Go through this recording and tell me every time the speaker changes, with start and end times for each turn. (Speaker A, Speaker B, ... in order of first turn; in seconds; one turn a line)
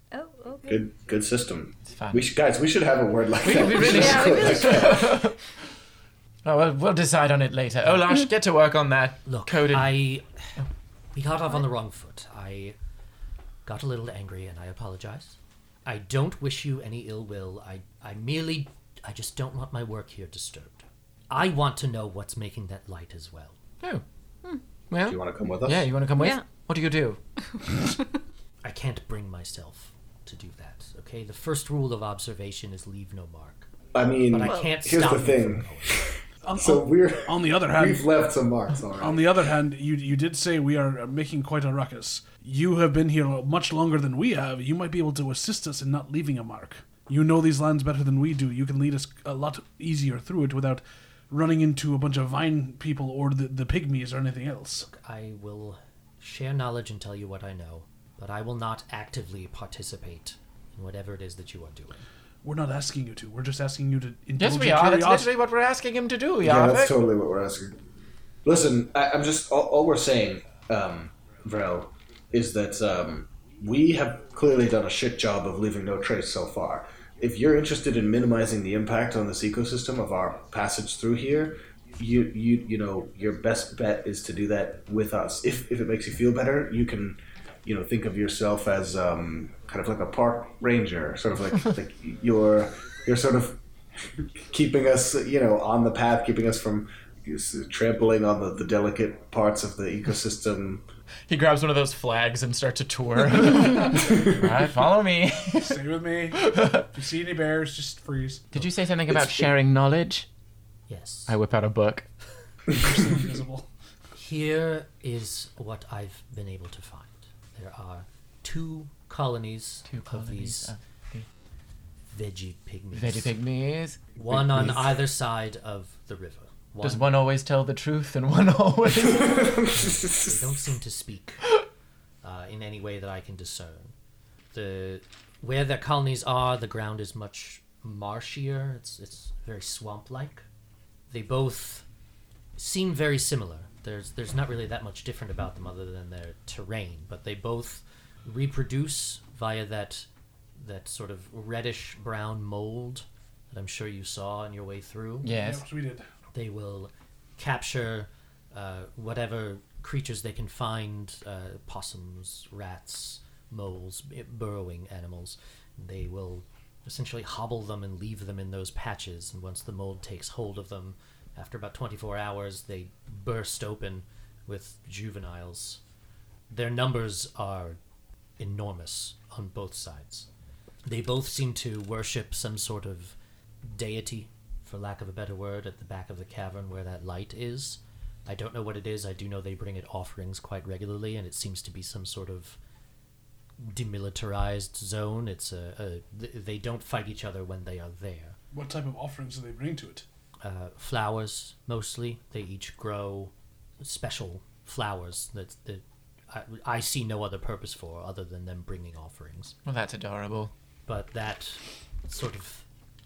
Speaker A: 0.1-0.8
Speaker B: 0.7-5.2
Speaker C: 1.9-2.2
Speaker C: 3.4-5.4
Speaker A: 3.8-5.1
Speaker C: 6.4-10.0
Speaker D: 9.2-10.2
Speaker D: 11.1-12.8
Speaker D: 13.6-23.6
Speaker C: 24.9-27.2
Speaker B: 25.0-25.9
Speaker A: 26.1-26.4
Speaker D: 28.6-33.7
Speaker B: 33.9-39.3
Speaker D: 34.3-36.0
Speaker E: 36.4-38.1
Speaker E: 39.0-54.9
Speaker D: 54.8-62.0
Speaker E: 62.4-65.3
Speaker C: 64.4-67.0
Speaker B: 66.4-67.8
Speaker B: 68.4-93.6
Speaker B: 94.5-100.8
Speaker C: 101.3-106.9
Speaker E: 105.6-108.6
Speaker C: 108.5-110.3
Speaker B: 109.1-109.5
Speaker D: 110.9-111.3
Speaker C: 111.3-112.1
Speaker E: 112.7-113.7
Speaker D: 114.2-120.7
Speaker C: 119.9-121.2
Speaker D: 122.1-123.3
Speaker C: 122.9-125.0
Speaker D: 124.2-127.1
Speaker C: 126.8-129.6
Speaker B: 129.0-130.4
Speaker D: 129.7-131.4
Speaker D: 132.2-133.9
Speaker D: 134.5-140.4
Speaker D: 141.1-141.8
Speaker D: 142.6-155.3
Speaker C: 155.2-155.6
Speaker E: 155.3-156.1
Speaker D: 156.3-175.8
Speaker D: 176.5-177.8
Speaker D: 178.4-180.3
Speaker D: 180.8-192.6
Speaker D: 193.6-198.4
Speaker E: 198.5-200.0
Speaker D: 200.4-209.5
Speaker C: 209.6-210.5
Speaker D: 210.9-212.7